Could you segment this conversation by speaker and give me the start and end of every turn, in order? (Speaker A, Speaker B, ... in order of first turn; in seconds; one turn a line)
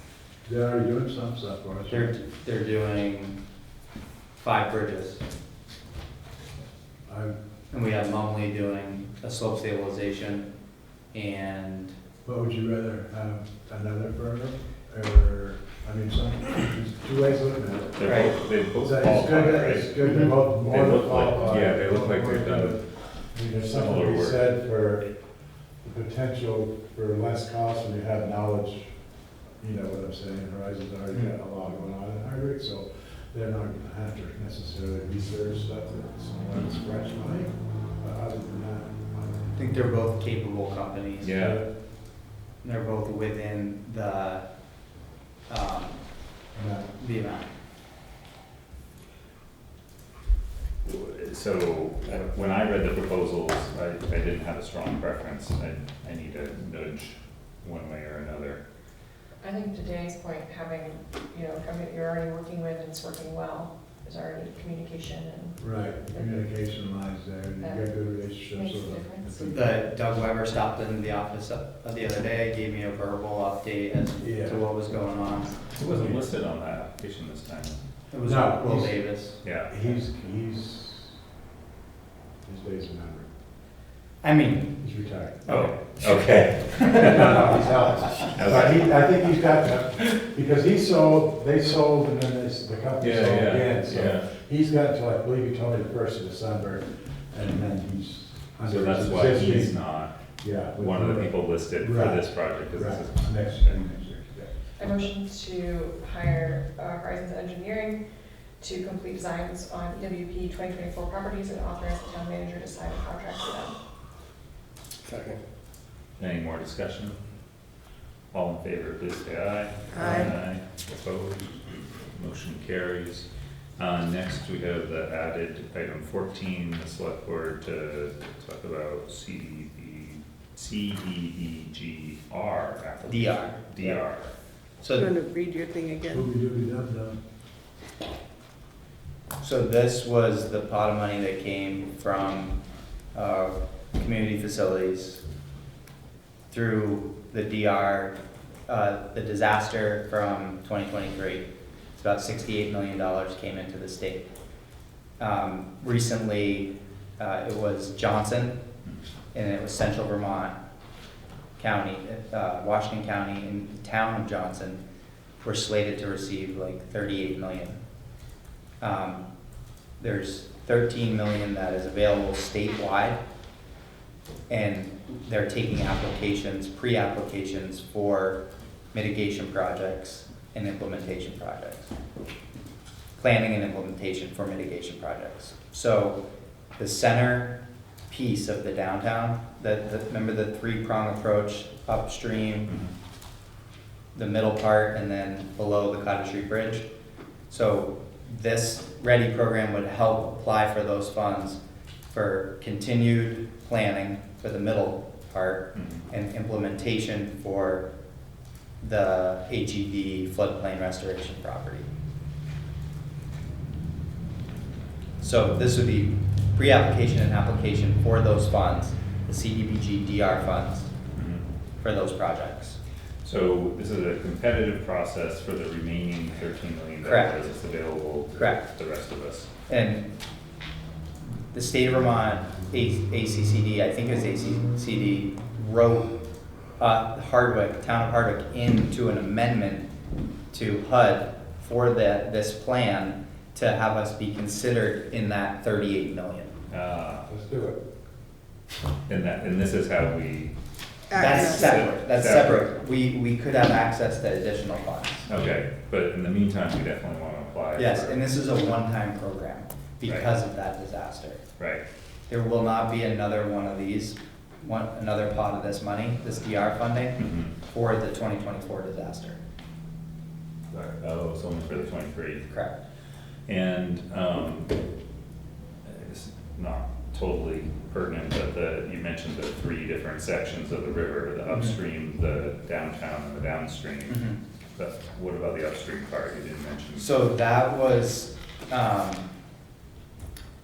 Speaker A: 0.5-2.1
Speaker B: 1.9-3.4
Speaker B: 4.4-5.2
Speaker A: 7.1-7.3
Speaker B: 7.7-10.5
Speaker B: 11.1-11.9
Speaker A: 12.2-18.2
Speaker C: 17.9-22.8
Speaker B: 18.0-18.3
Speaker A: 18.8-25.1
Speaker C: 23.6-24.5
Speaker A: 25.8-28.9
Speaker A: 29.6-39.5
Speaker B: 39.5-41.4
Speaker C: 41.2-41.6
Speaker A: 41.3-41.6
Speaker B: 42.6-44.5
Speaker B: 45.5-46.0
Speaker A: 46.5-46.9
Speaker B: 47.0-47.5
Speaker C: 50.8-58.6
Speaker D: 59.4-66.4
Speaker A: 65.6-69.8
Speaker D: 67.6-69.5
Speaker B: 69.5-75.6
Speaker A: 74.2-74.6
Speaker C: 75.7-77.8
Speaker B: 78.1-79.4
Speaker A: 78.2-79.0
Speaker C: 79.4-79.7
Speaker A: 79.7-81.1
Speaker A: 82.4-83.2
Speaker B: 84.2-84.7
Speaker A: 84.8-85.4
Speaker B: 85.4-87.4
Speaker C: 85.5-87.6
Speaker A: 86.8-99.8
Speaker C: 88.3-88.9
Speaker C: 93.0-94.3
Speaker C: 98.6-100.1
Speaker A: 100.4-104.5
Speaker C: 100.7-103.8
Speaker D: 104.8-108.0
Speaker D: 108.6-113.8
Speaker A: 115.0-115.4
Speaker C: 116.2-117.1
Speaker C: 118.3-121.6
Speaker E: 119.9-120.3
Speaker C: 122.1-123.2
Speaker C: 123.8-134.3
Speaker B: 133.1-134.0
Speaker B: 134.8-135.1
Speaker E: 134.9-136.3
Speaker A: 136.1-137.2
Speaker B: 139.4-142.6
Speaker B: 143.1-145.2
Speaker B: 146.5-154.3
Speaker B: 155.2-158.6
Speaker B: 159.3-160.6
Speaker B: 161.6-164.8
Speaker B: 165.4-167.8
Speaker B: 168.8-169.2
Speaker B: 170.0-173.2
Speaker B: 174.5-178.4
Speaker B: 178.9-181.9
Speaker B: 183.2-186.2
Speaker B: 186.8-187.6
Speaker B: 188.1-192.7
Speaker B: 194.1-196.9
Speaker B: 197.5-201.6
Speaker B: 202.1-207.8
Speaker C: 205.7-206.1
Speaker B: 208.8-211.9
Speaker B: 215.2-220.9
Speaker C: 221.1-221.4
Speaker B: 221.8-222.8
Speaker C: 223.2-229.5
Speaker B: 227.0-227.4
Speaker B: 228.4-228.6
Speaker B: 229.7-230.1
Speaker B: 231.2-236.1
Speaker B: 236.8-239.8
Speaker B: 240.5-246.5
Speaker C: 246.7-247.3
Speaker A: 247.3-247.8
Speaker C: 249.1-250.5
Speaker E: 251.1-251.8
Speaker C: 251.1-252.7
Speaker B: 251.1-255.3
Speaker C: 255.3-258.2
Speaker B: 257.8-261.4
Speaker C: 261.6-261.8
Speaker B: 262.3-269.4
Speaker C: 267.2-267.5
Speaker C: 270.7-272.4
Speaker B: 272.4-272.8
Speaker C: 273.5-274.7
Speaker C: 275.8-287.1
Speaker B: 284.1-284.4
Speaker B: 286.9-289.2